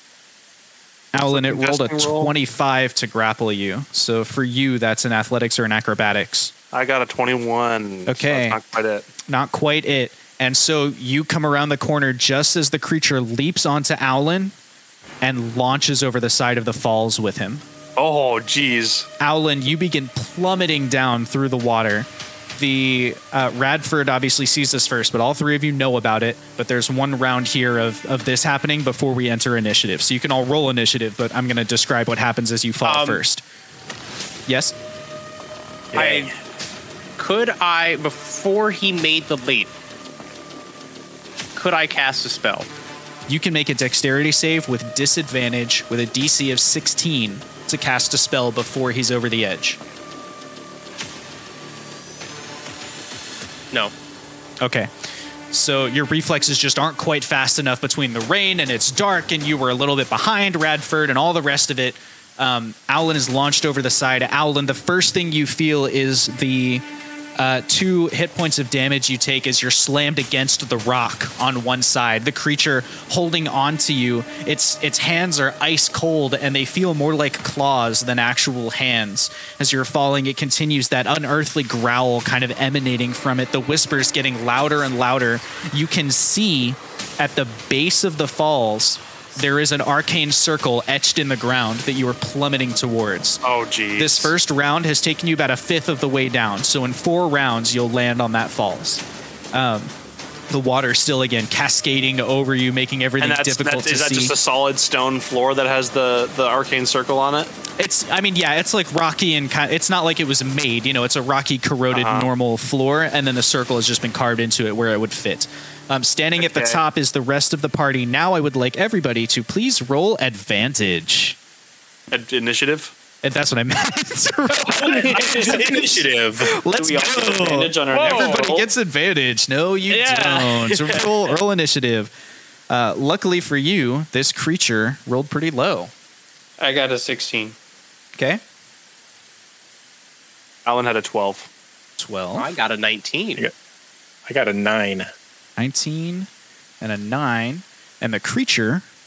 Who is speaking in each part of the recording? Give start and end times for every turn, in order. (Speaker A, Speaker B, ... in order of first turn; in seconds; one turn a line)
Speaker A: 1.1-6.5
Speaker B: 1.1-2.3
Speaker B: 6.7-9.1
Speaker A: 8.1-8.6
Speaker A: 9.3-14.5
Speaker A: 15.2-17.6
Speaker B: 17.9-19.1
Speaker A: 19.2-33.4
Speaker C: 32.8-33.2
Speaker A: 34.5-34.7
Speaker D: 35.9-36.3
Speaker C: 36.0-36.3
Speaker C: 37.2-39.7
Speaker C: 41.5-42.7
Speaker A: 43.3-49.8
Speaker A: 54.6-54.9
Speaker A: 55.5-66.8
Speaker A: 67.4-93.4
Speaker B: 93.4-94.3
Speaker A: 94.0-99.9
Speaker A: 100.5-104.3
Speaker B: 103.2-107.5
Speaker A: 107.8-121.4
Speaker B: 111.9-112.3
Speaker B: 116.4-116.8
Speaker B: 122.1-122.9
Speaker A: 123.2-132.1
Speaker C: 124.8-125.4
Speaker D: 125.2-126.6
Speaker E: 125.2-125.6
Speaker E: 126.7-128.5
Speaker C: 127.9-128.7
Speaker C: 129.9-131.3
Speaker A: 132.7-135.9
Speaker E: 136.6-137.6
Speaker A: 138.2-138.4
Speaker B: 140.6-141.5
Speaker A: 142.0-142.5
Speaker C: 142.3-143.4
Speaker D: 144.3-145.1
Speaker A: 145.6-146.3
Speaker A: 146.8-148.8